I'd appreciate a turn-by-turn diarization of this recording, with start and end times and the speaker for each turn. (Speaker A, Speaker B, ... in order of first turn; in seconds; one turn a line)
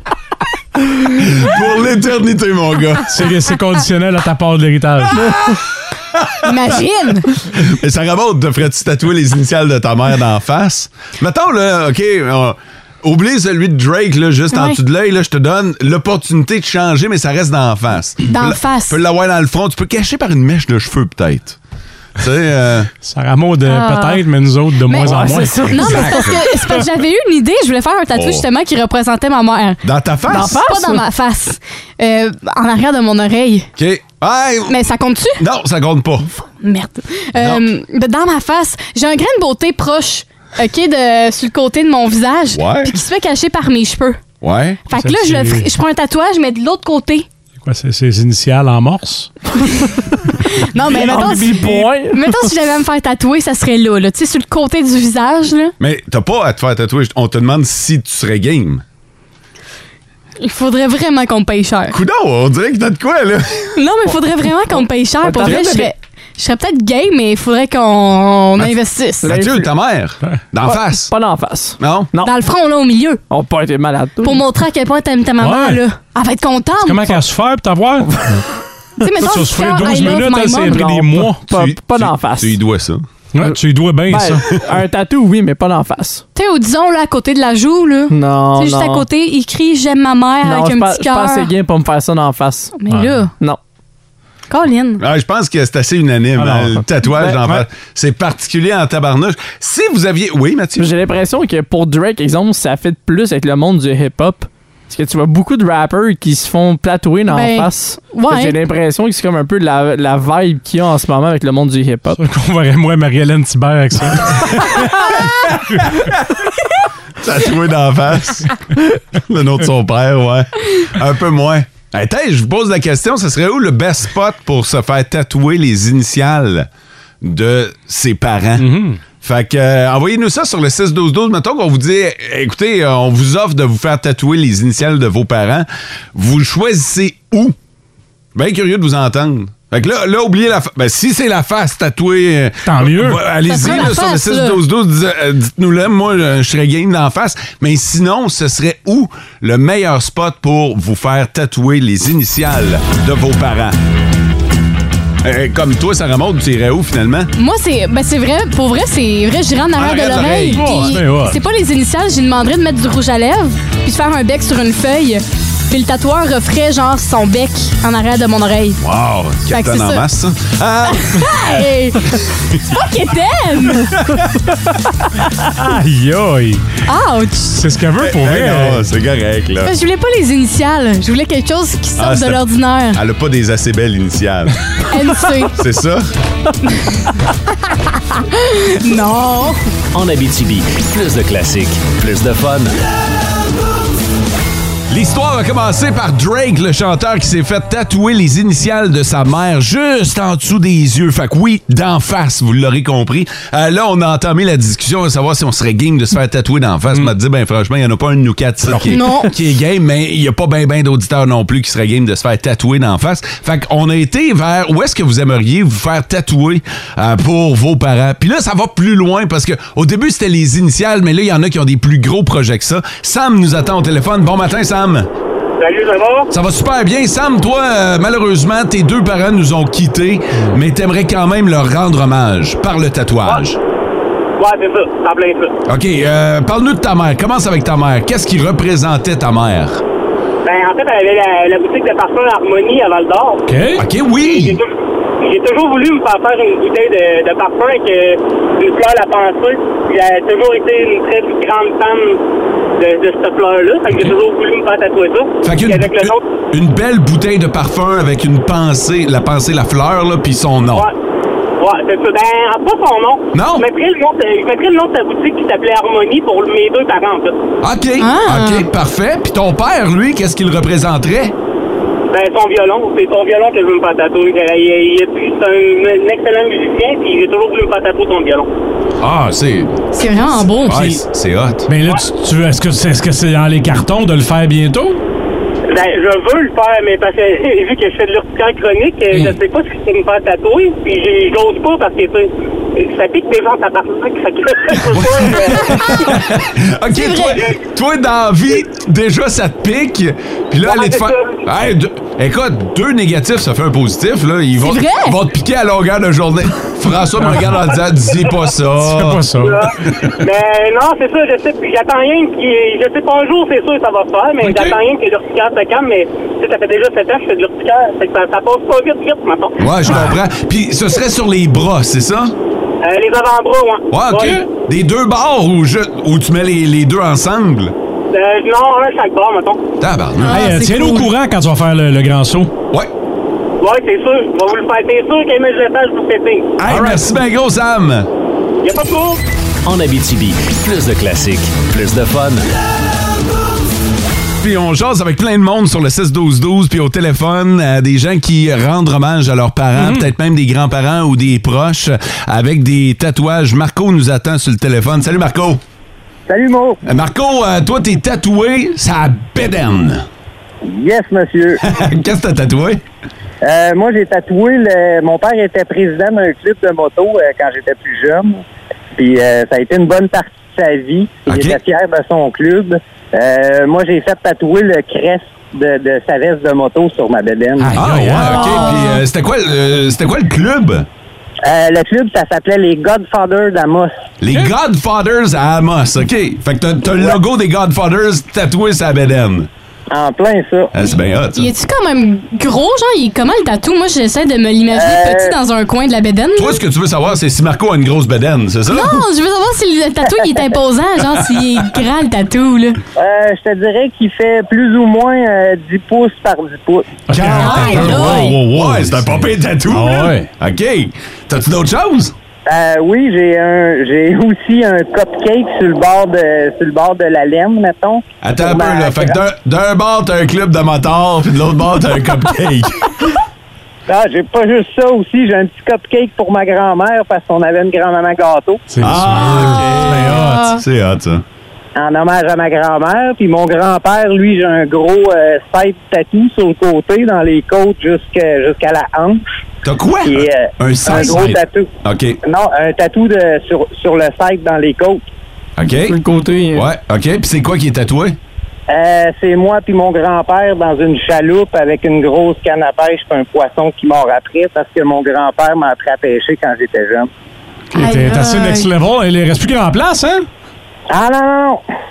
Speaker A: 1.0-3.2
Speaker B: 3.1-5.3
Speaker C: 6.4-7.3
Speaker A: 7.5-21.6
Speaker C: 14.5-14.8
Speaker C: 18.3-19.0
Speaker A: 22.2-22.9
Speaker B: 23.0-26.1
Speaker C: 23.7-24.2
Speaker C: 24.9-33.7
Speaker D: 24.9-26.4
Speaker A: 25.8-26.4
Speaker A: 28.1-28.5
Speaker A: 29.8-30.6
Speaker D: 30.3-31.0
Speaker A: 33.8-34.8
Speaker C: 34.7-35.4
Speaker A: 35.4-36.3
Speaker C: 36.4-44.2
Speaker A: 37.4-37.6
Speaker A: 42.5-43.0
Speaker A: 44.4-44.8
Speaker C: 44.9-47.3
Speaker B: 45.0-45.7
Speaker B: 47.6-49.3
Speaker C: 50.6-55.7
Speaker D: 50.9-52.4
Speaker A: 55.8-58.8
Speaker C: 60.4-62.0
Speaker A: 61.9-63.8
Speaker C: 63.8-69.3
Speaker D: 65.2-65.9
Speaker D: 69.2-69.7
Speaker A: 69.2-71.1
Speaker D: 70.6-72.3
Speaker A: 71.8-72.1
Speaker C: 72.2-73.2
Speaker D: 73.3-74.4
Speaker C: 74.2-77.2
Speaker B: 75.4-75.8
Speaker B: 76.8-78.2
Speaker C: 79.0-80.9
Speaker B: 79.2-81.5
Speaker D: 79.8-80.1
Speaker D: 80.6-82.6
Speaker A: 81.5-83.1
Speaker B: 83.3-84.5
Speaker D: 83.4-86.2
Speaker C: 86.3-91.5
Speaker D: 88.1-89.1
Speaker D: 90.4-92.8
Speaker C: 92.8-93.3
Speaker C: 94.5-95.0
Speaker A: 95.0-100.9
Speaker B: 96.4-96.8
Speaker D: 100.8-112.2
Speaker C: 107.3-108.6
Speaker B: 112.2-115.2
Speaker A: 115.6-116.1
Speaker A: 117.2-118.6
Speaker A: 119.1-126.7
Speaker A: 127.2-137.6
Speaker B: 128.6-129.0
Speaker A: 138.3-153.8
Speaker B: 142.7-143.2
Speaker C: 143.4-144.6
Speaker A: 155.2-157.3
Speaker C: 157.4-168.8
Speaker A: 159.8-161.0
Speaker B: 160.5-161.4
Speaker A: 168.8-171.3
Speaker C: 169.5-170.1
Speaker C: 170.9-174.0
Speaker A: 172.3-172.6
Speaker B: 175.5-176.6
Speaker C: 176.9-177.6
Speaker B: 177.5-178.9
Speaker A: 178.0-179.7
Speaker C: 179.6-183.0
Speaker A: 182.0-184.6
Speaker C: 184.9-185.6
Speaker A: 185.6-186.1
Speaker C: 186.7-187.0
Speaker C: 188.1-189.6
Speaker E: 189.9-192.7
Speaker A: 194.9-225.1
Speaker C: 208.8-209.3
Speaker F: 225.6-226.3
Speaker A: 226.3-233.6
Speaker F: 234.4-235.5
Speaker A: 235.7-239.8
Speaker F: 240.4-243.4
Speaker B: 243.5-243.8
Speaker A: 243.8-244.6
Speaker F: 244.2-252.2
Speaker F: 252.8-256.2
Speaker A: 255.4-260.9
Speaker F: 261.6-267.3
Speaker A: 263.3-263.7
Speaker A: 267.6-271.4
Speaker C: 268.0-268.7
Speaker F: 272.1-278.5
Speaker A: 279.0-279.8
Speaker C: 279.9-281.0
Speaker A: 280.6-281.7
Speaker B: 281.7-285.0
Speaker F: 285.7-296.1
Speaker A: 294.8-309.2
Speaker C: 295.6-296.1
Speaker C: 296.9-297.4
Speaker F: 300.6-301.4
Speaker C: 304.6-305.2
Speaker B: 308.8-309.6
Speaker F: 309.4-319.7
Speaker A: 309.8-310.1
Speaker B: 314.4-314.8
Speaker A: 319.6-322.4
Speaker B: 319.9-320.1
Speaker F: 322.8-324.4
Speaker A: 323.9-327.8
Speaker F: 328.1-329.6
Speaker A: 329.8-330.4
Speaker C: 330.2-331.1
Speaker B: 330.3-332.5
Speaker F: 333.6-336.6
Speaker A: 336.6-338.1
Speaker B: 336.7-337.1
Speaker F: 338.6-339.2
Speaker E: 339.6-342.4
Speaker A: 344.4-355.6
Speaker B: 349.8-350.0
Speaker G: 356.3-356.8
Speaker A: 356.9-360.1
Speaker G: 360.7-361.6
Speaker A: 361.6-362.8
Speaker G: 363.4-368.4
Speaker G: 369.0-377.8
Speaker A: 371.3-371.6
Speaker B: 377.6-378.8
Speaker A: 377.8-380.9
Speaker C: 378.3-379.0
Speaker G: 381.4-383.9
Speaker A: 384.2-389.5
Speaker G: 389.9-390.7
Speaker A: 390.7-391.5
Speaker C: 391.4-396.6
Speaker G: 394.7-395.3
Speaker A: 396.4-399.0
Speaker C: 398.7-402.8
Speaker G: 403.0-406.9
Speaker B: 407.1-410.3
Speaker A: 407.1-412.1
Speaker C: 407.2-408.4
Speaker G: 412.5-419.2
Speaker A: 418.2-423.2
Speaker G: 423.9-428.6
Speaker B: 428.7-430.6
Speaker A: 428.8-431.2
Speaker C: 429.5-430.6
Speaker G: 431.8-439.2
Speaker A: 439.6-442.2
Speaker G: 440.1-441.7
Speaker G: 442.2-445.0
Speaker A: 445.6-446.0
Speaker D: 445.8-446.7
Speaker A: 446.5-448.2
Speaker G: 448.7-457.1
Speaker B: 457.7-460.3
Speaker C: 457.8-458.7
Speaker G: 460.9-461.6